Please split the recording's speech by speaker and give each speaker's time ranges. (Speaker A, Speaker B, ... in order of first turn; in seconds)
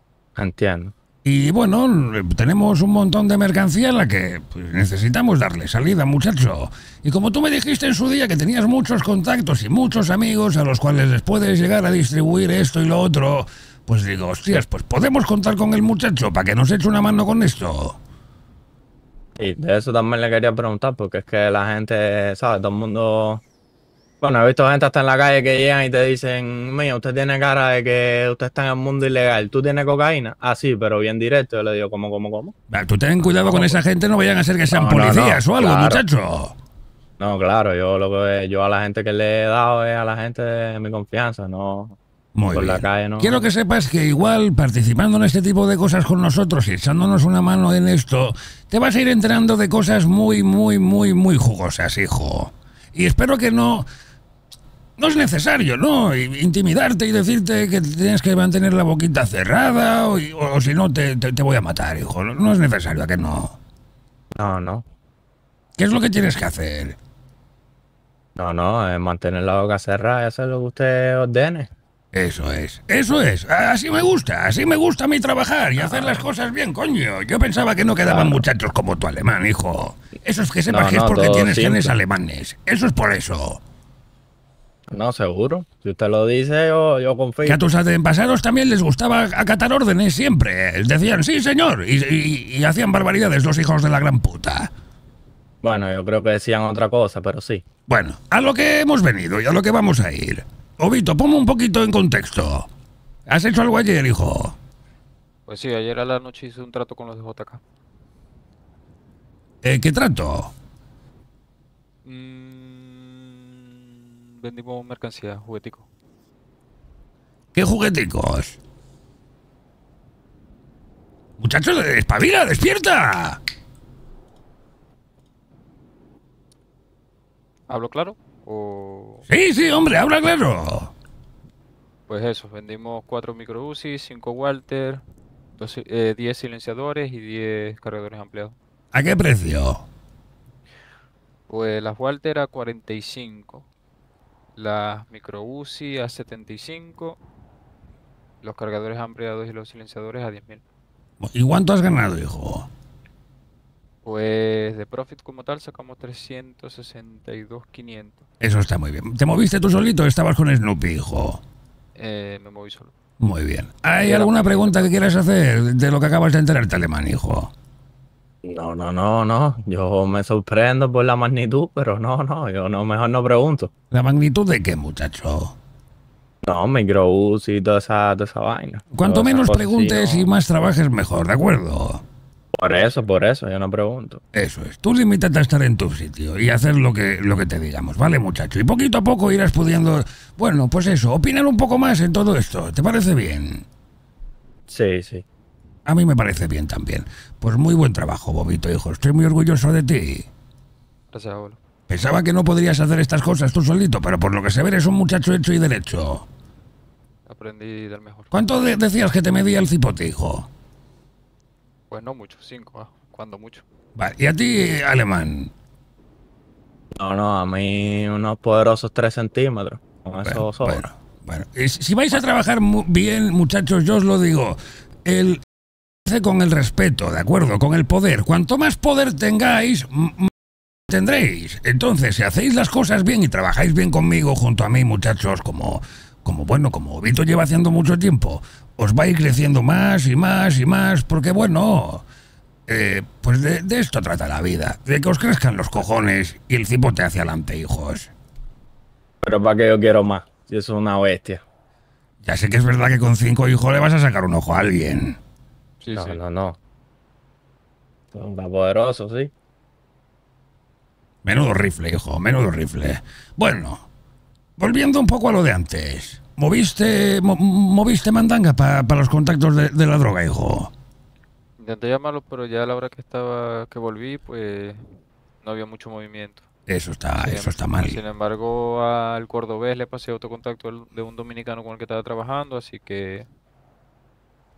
Speaker A: 0.4-0.9, 19.4-23.4, 24.2-32.5, 33.3-33.8, 34.7-36.0, 37.2-42.0, 42.5-43.5, 64.4-64.8, 68.4-71.7, 75.8-76.2, 78.0-78.5, 80.7-82.0, 84.9-87.7, 95.6-97.7, 168.4-173.7, 176.4-180.3, 182.5-184.2, 194.7-195.2, 216.9-220.8, 249.2-251.4, 255.9-256.6, 258.1-259.3
Speaker B: 1.2-18.0, 32.7-36.5, 42.4-53.9, 55.0-63.6, 65.8-67.0, 72.1-83.6, 87.5-94.7, 97.9-102.7, 103.3-104.6, 109.6-110.5, 117.5-118.6, 121.4-123.4, 129.3-130.9, 138.9-139.9, 151.2-152.7, 158.4-161.4, 163.2-167.5, 173.9-175.6, 178.9-182.0, 184.3-193.7, 195.9-200.3, 201.9-206.3, 208.3-210.5, 214.0-215.5, 220.2-225.4, 226.1-230.3, 230.9-242.1, 242.7-248.1, 252.2-255.2, 261.2-263.8, 264.6-270.7, 276.7-278.0
Speaker C: 105.5-107.6, 112.0-115.9, 127.7-129.2, 132.1-135.0, 135.6-138.6, 141.5-143.7, 144.6-147.2, 148.4-150.6, 154.0-158.2, 162.0-162.9, 164.0-164.9, 201.1-201.6, 207.3-208.4, 211.9-213.6, 255.8-256.2, 271.6-274.9, 275.4-276.4, 277.2-283.3